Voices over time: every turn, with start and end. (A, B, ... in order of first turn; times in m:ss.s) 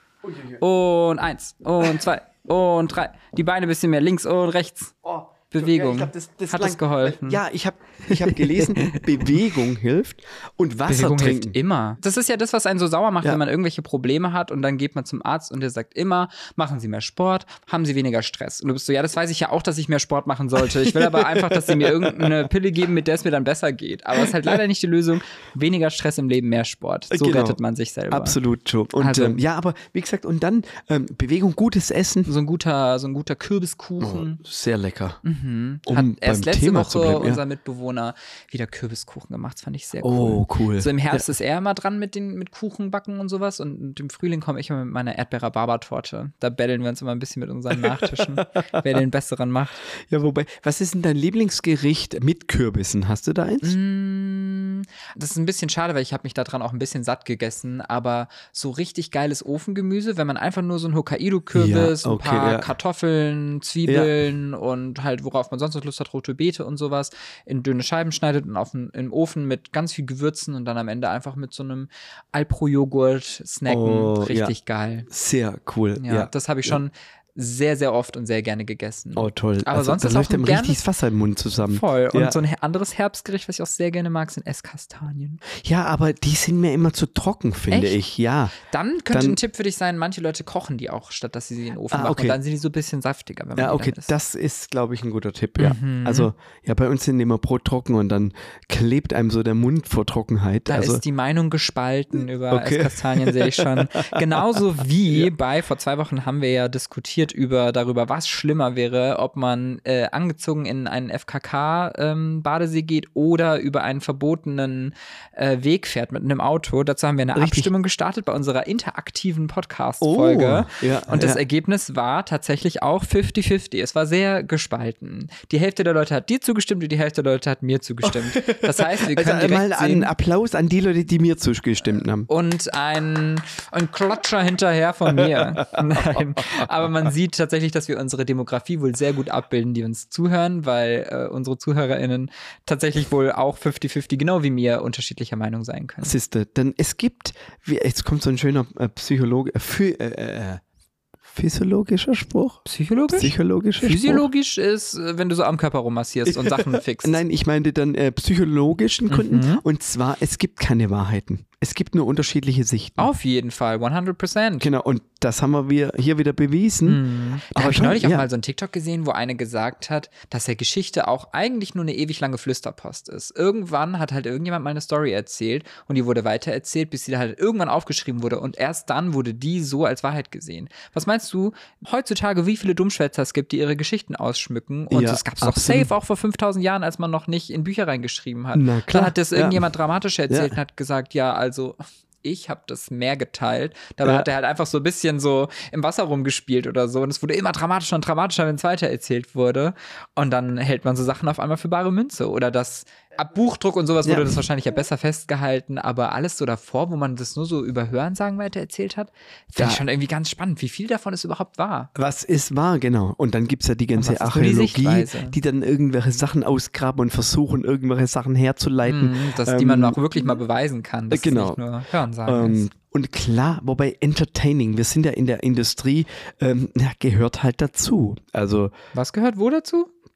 0:00.2-0:00.6 A
0:00.6-0:05.0 B
0:05.0-0:11.6 A
0:05.5-0:07.4 B
0:08.1-0:09.5 B
0:10.9-0:28.4 B
0:20.6-0:22.5 A
0:24.2-0:24.6 A
0:27.1-0:27.6 A
0:28.1-0:32.3 A
0:29.0-0:29.4 B
0:32.2-0:34.4 B
0:34.0-0:35.2 A
0:35.2-0:49.8 B
0:35.9-0:37.4 A
0:40.0-0:41.2 A
0:47.7-0:48.9 A
0:50.1-0:53.8 A
0:53.6-1:15.1 B
1:01.5-1:02.7 A
1:03.8-1:04.1 A
1:13.7-1:14.5 A
1:15.1-1:16.8 A
1:16.0-1:20.8 B
1:19.2-1:22.4 A
1:21.6-1:25.4 B
1:25.5-1:28.5 A
1:27.7-1:28.0 B
1:28.6-1:34.1 B
1:29.1-1:29.4 A
1:31.9-1:32.4 A
1:33.6-1:41.0 A
1:35.6-1:36.3 B
1:40.7-2:10.1 B
1:42.5-1:44.4 A
1:57.3-1:57.7 A
2:00.0-2:01.4 A
2:08.0-2:12.3 A
2:12.3-2:26.1 B
2:15.2-2:15.5 A
2:26.0-2:30.6 A
2:31.3-2:34.2 A
2:32.6-2:37.2 B
2:36.3-2:43.1 A
2:39.1-2:39.6 B
2:43.0-2:44.7 B
2:44.6-2:48.3 A
2:46.8-3:31.9 B
3:04.9-3:05.9 A
3:08.5-3:09.7 A
3:10.3-3:10.6 A
3:14.0-3:14.3 A
3:24.0-3:24.4 A
3:29.6-3:29.8 A
3:32.0-3:40.4 A
3:34.0-3:35.4 B
3:38.8-3:42.6 B
3:41.1-3:41.6 A
3:42.2-3:48.7 A
3:48.9-3:49.9 B